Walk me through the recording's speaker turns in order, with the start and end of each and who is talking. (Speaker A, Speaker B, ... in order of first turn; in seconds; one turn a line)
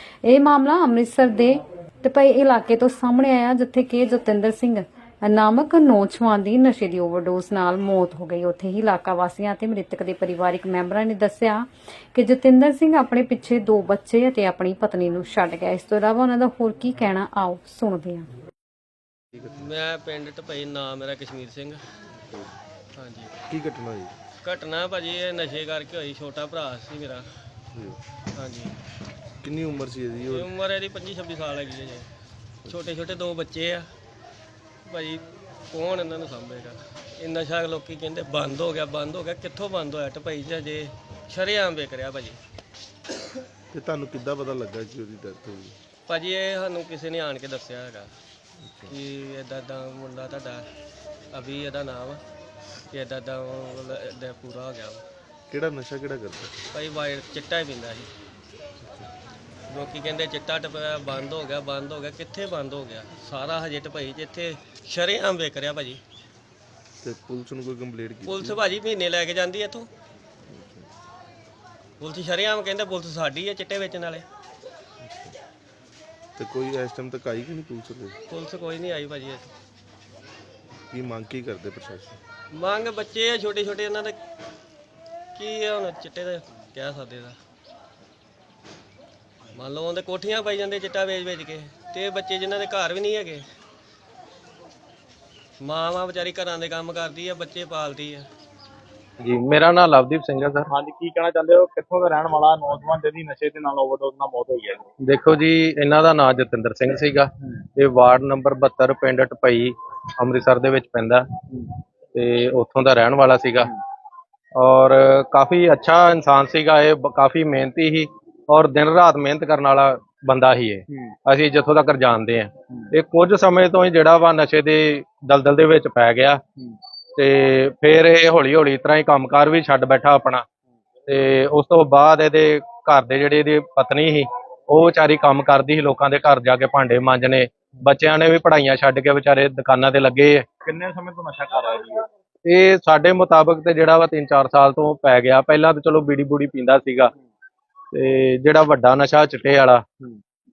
Speaker A: 0.2-18.3
Speaker B: 19.4-21.8
Speaker C: 22.2-22.5
Speaker B: 22.9-23.3
Speaker C: 23.5-24.1
Speaker B: 24.4-27.3
Speaker B: 28.4-28.7
Speaker C: 29.4-30.5
Speaker B: 30.3-32.1
Speaker B: 32.7-33.9
Speaker B: 34.9-42.4
Speaker C: 43.7-45.8
Speaker B: 46.1-48.1
Speaker C: 48.6-49.0
Speaker B: 48.9-50.7
Speaker B: 51.3-52.2
Speaker B: 52.9-55.0
Speaker C: 55.5-56.7
Speaker B: 56.7-58.1
Speaker C: 58.8-59.1
Speaker B: 59.7-66.0
Speaker C: 67.0-68.6
Speaker B: 68.2-69.9
Speaker C: 70.5-70.9
Speaker B: 72.0-74.3
Speaker C: 75.0-75.4
Speaker C: 76.4-78.2
Speaker B: 78.3-79.5
Speaker C: 80.9-82.2
Speaker B: 82.5-84.2
Speaker B: 85.3-87.4
Speaker B: 89.5-93.4
Speaker B: 95.6-98.3
Speaker D: 99.2-100.7
Speaker E: 100.7-104.9
Speaker D: 105.0-111.2
Speaker D: 112.1-113.7
Speaker D: 114.5-126.4
Speaker D: 127.2-130.4
Speaker D: 131.1-140.4
Speaker E: 140.6-142.1
Speaker D: 142.5-147.1
Speaker D: 147.9-149.8